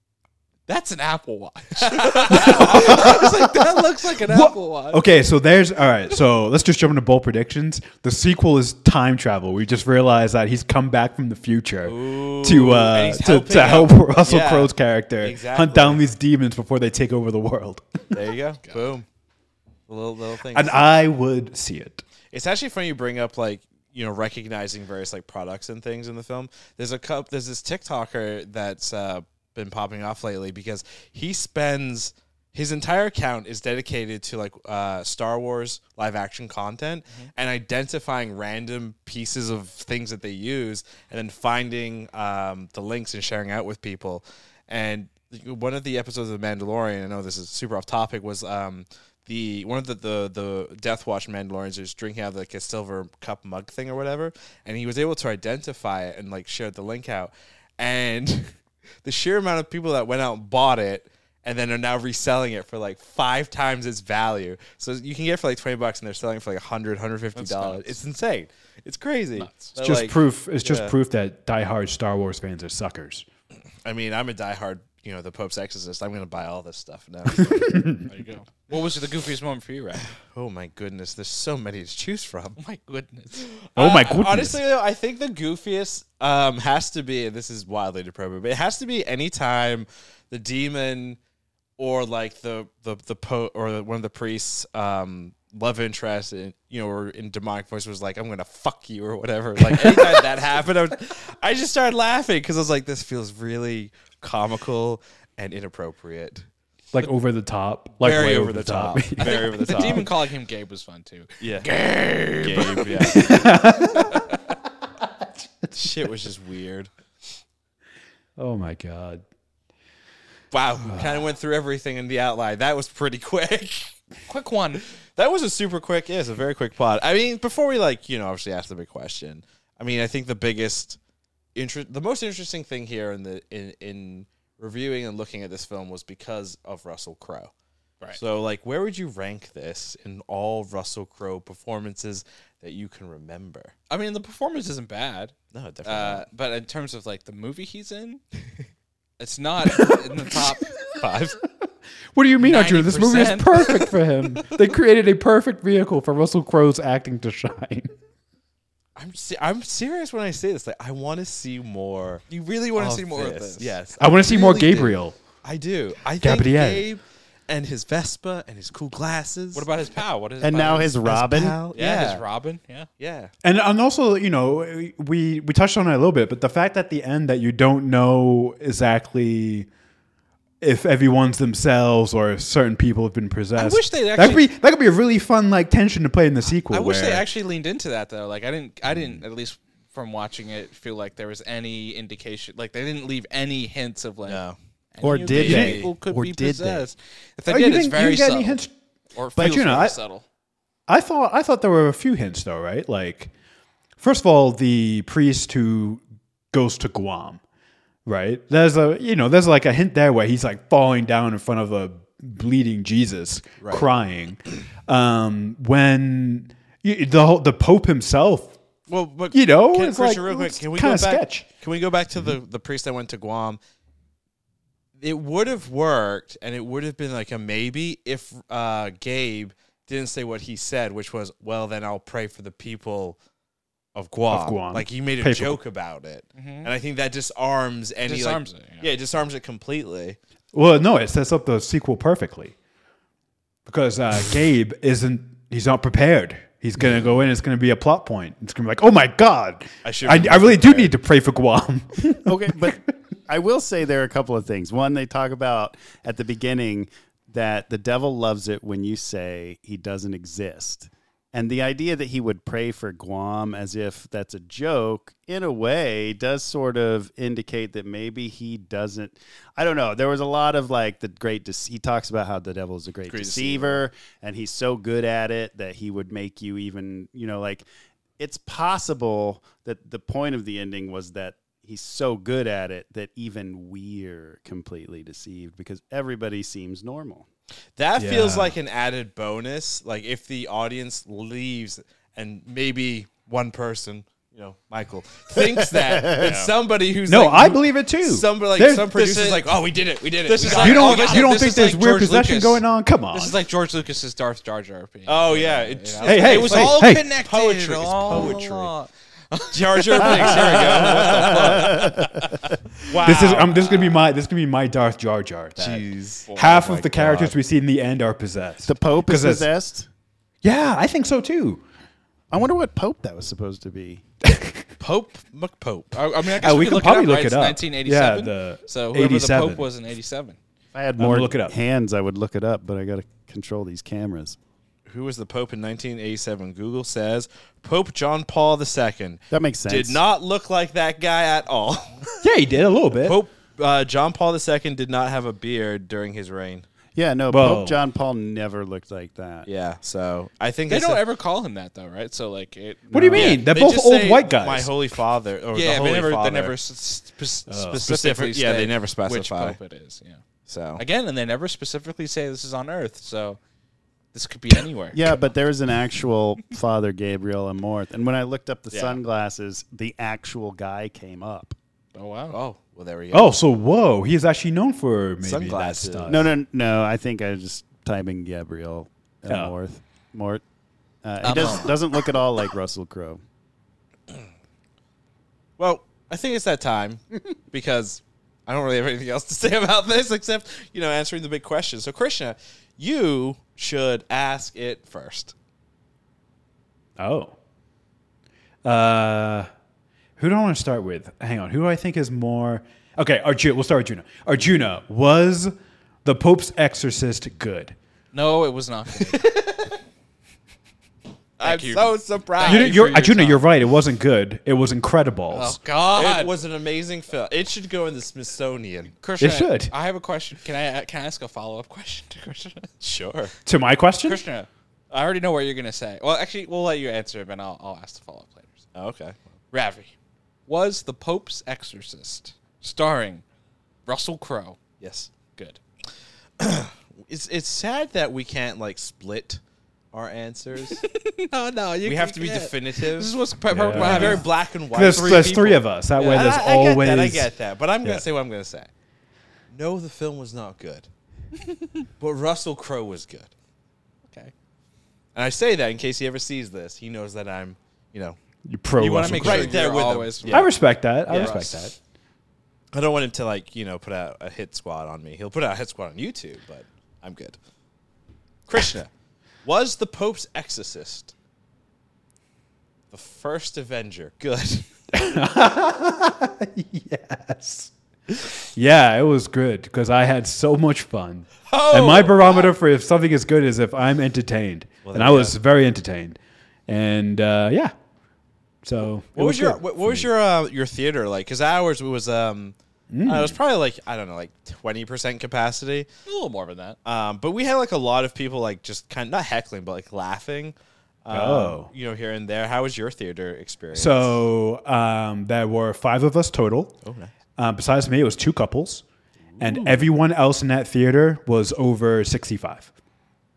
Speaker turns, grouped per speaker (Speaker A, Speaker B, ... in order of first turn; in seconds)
Speaker A: 0.7-5.0, 67.4-68.0, 69.4-69.7, 78.0-80.1, 82.6-83.5, 109.2-114.4, 124.3-124.8, 143.9-148.2, 149.2-150.8, 152.4-153.9, 162.3-163.8, 169.6-171.1, 171.7-172.9, 183.6-184.5, 186.7-198.6, 199.2-200.2, 236.3-236.7, 238.1-238.9, 296.2-296.5, 298.9-299.5, 300.2-312.3, 316.3-316.7, 325.9-330.4, 350.7-353.4, 355.5-360.2, 360.8-363.4, 364.1-365.2, 371.9-372.4, 381.2-381.8, 408.1-409.7, 411.4-413.4, 415.3-416.3, 419.0-422.7, 424.0-428.6, 429.5-429.9, 430.5-433.2, 433.9-434.6, 440.8-446.4, 458.8-461.7, 496.1-496.8
Speaker B: 1.9-2.9, 11.8-16.0, 18.1-19.1, 19.9-20.9, 22.3-71.0, 73.8-77.9, 80.2-82.6, 83.5-91.2, 91.8-106.5, 108.0-110.1, 111.4-111.7, 112.4-113.4, 115.7-116.9, 120.5-124.0, 125.2-131.0, 131.6-137.5, 138.1-143.7, 145.5-146.2, 151.0-151.4, 159.0-162.2, 162.8-169.7, 171.0-172.2, 173.0-173.3, 194.3-194.6, 195.3-195.9, 213.6-213.9, 218.9-223.6, 225.0-233.2, 233.9-240.2, 249.8-250.9, 273.1-273.9, 287.8-301.4, 305.1-308.7, 309.5-311.9, 312.9-313.8, 315.6-317.3, 324.8-326.0, 334.9-342.1, 343.0-346.7, 349.4-351.0, 353.1-356.6, 357.7-359.6, 360.5-360.8, 368.7-369.0, 372.3-373.3, 375.2-376.3, 385.6-395.3, 411.4-412.8, 415.9-418.9, 422.8-423.3, 428.8-429.2, 434.8-435.1, 436.4-439.4, 439.9-440.8, 441.9-443.1, 443.7-448.7, 449.5-450.9, 452.0-453.3, 455.1-458.2, 458.8-460.5, 461.1-461.4, 462.7-467.4, 468.5-468.9, 469.4-471.1, 472.9-474.7, 481.4-482.6, 484.8-485.4, 489.1-495.9, 496.9-504.2, 506.8-507.1, 509.3-509.9
Speaker C: 2.3-18.1, 20.5-22.0, 69.8-73.3, 77.5-78.0, 83.8-84.6, 106.9-110.1, 113.1-114.3, 115.2-115.7, 118.4-119.2, 149.8-150.0, 152.1-157.9, 164.0-165.2, 166.2-166.9, 173.4-179.7, 180.6-187.3, 197.5-198.7, 199.4-200.0, 200.9-203.3, 204.0-207.4, 208.1-218.6, 219.3-221.5, 234.3-235.6, 240.5-242.6, 243.7-252.8, 288.0-288.6, 297.1-299.0, 300.5-303.4, 306.0-307.1, 313.0-319.5, 320.4-321.6, 324.2-324.6, 326.4-329.7, 331.0-331.6, 342.2-343.2, 347.3-347.8, 352.9-354.7, 357.5-357.8, 373.1-376.3, 379.3-379.5, 397.0-397.4, 398.6-399.5, 400.2-407.8, 412.4-415.6, 419.2-419.7, 423.4-424.2, 443.5-447.3, 458.5-461.8, 474.9-487.7, 488.6-490.1, 492.9-493.4, 501.1-501.7, 503.7-506.8, 507.4-508.8, 509.4-512.7
Speaker D: 170.4-171.6, 195.0-196.8, 252.2-277.7, 278.2-287.3, 295.4-296.4, 310.0-312.4, 318.6-319.9, 322.3-324.0, 330.7-334.4, 339.3-340.0, 346.9-349.5, 352.9-353.4, 364.9-371.6, 376.1-380.4, 381.0-383.2